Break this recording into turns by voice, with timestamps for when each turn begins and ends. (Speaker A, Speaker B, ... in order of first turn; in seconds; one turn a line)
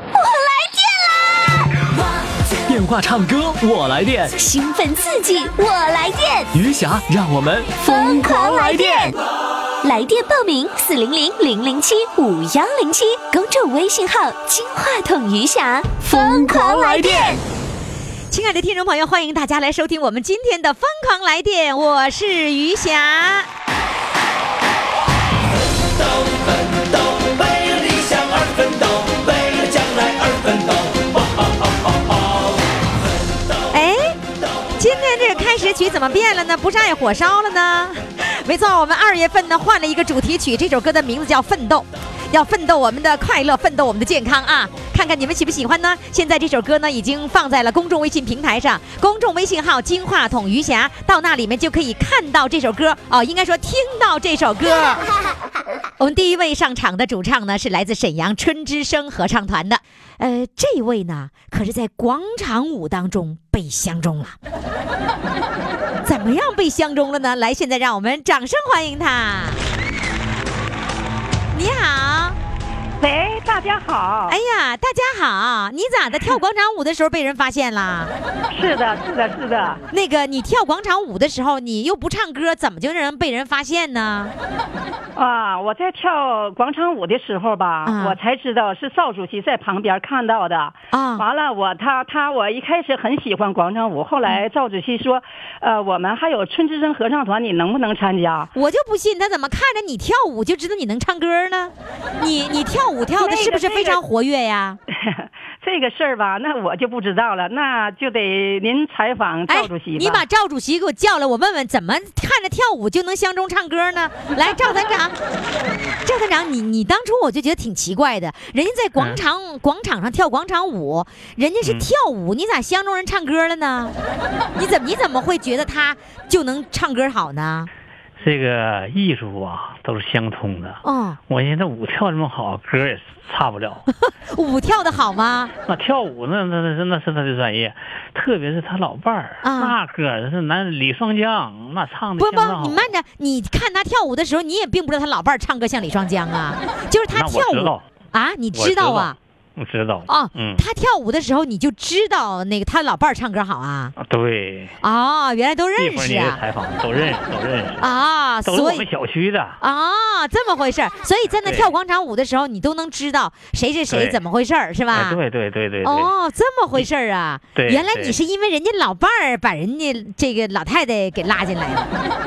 Speaker A: 0.1-1.6
Speaker B: 2.7-4.3
Speaker A: 4.4-6.5
Speaker B: 6.5-9.1
Speaker A: 7.8-9.2
Speaker A: 9.8-17.4
Speaker B: 16.1-17.4
Speaker C: 18.3-23.5
Speaker D: 25.7-33.5
Speaker C: 33.7-34.2
Speaker C: 34.8-55.0
Speaker C: 56.0-64.3
Speaker C: 66.0-69.6
Speaker C: 71.5-72.4
Speaker E: 73.0-74.4
Speaker C: 74.3-78.1
Speaker E: 78.5-79.8
Speaker C: 79.9-84.3
Speaker E: 85.1-98.5
Speaker C: 87.8-88.2
Speaker C: 90.9-91.2
Speaker C: 98.5-104.8
Speaker E: 103.2-104.0
Speaker E: 104.9-110.2
Speaker C: 109.5-115.2
Speaker C: 116.0-123.9
Speaker F: 119.0-119.2
Speaker F: 121.6-121.9
Speaker C: 124.6-127.7
Speaker F: 128.2-133.9
Speaker C: 130.8-131.2
Speaker C: 134.3-135.5
Speaker F: 135.7-142.8
Speaker C: 139.4-139.7
Speaker C: 142.2-149.1
Speaker F: 147.1-147.8
Speaker F: 148.5-150.6
Speaker C: 150.1-153.9
Speaker F: 153.9-154.8
Speaker C: 154.8-156.4
Speaker F: 155.8-157.9
Speaker C: 157.8-158.8
Speaker F: 158.4-159.6
Speaker C: 159.6-165.2
Speaker F: 161.4-161.7
Speaker F: 163.9-164.2
Speaker F: 164.9-166.1
Speaker C: 165.8-171.9
Speaker F: 167.5-168.2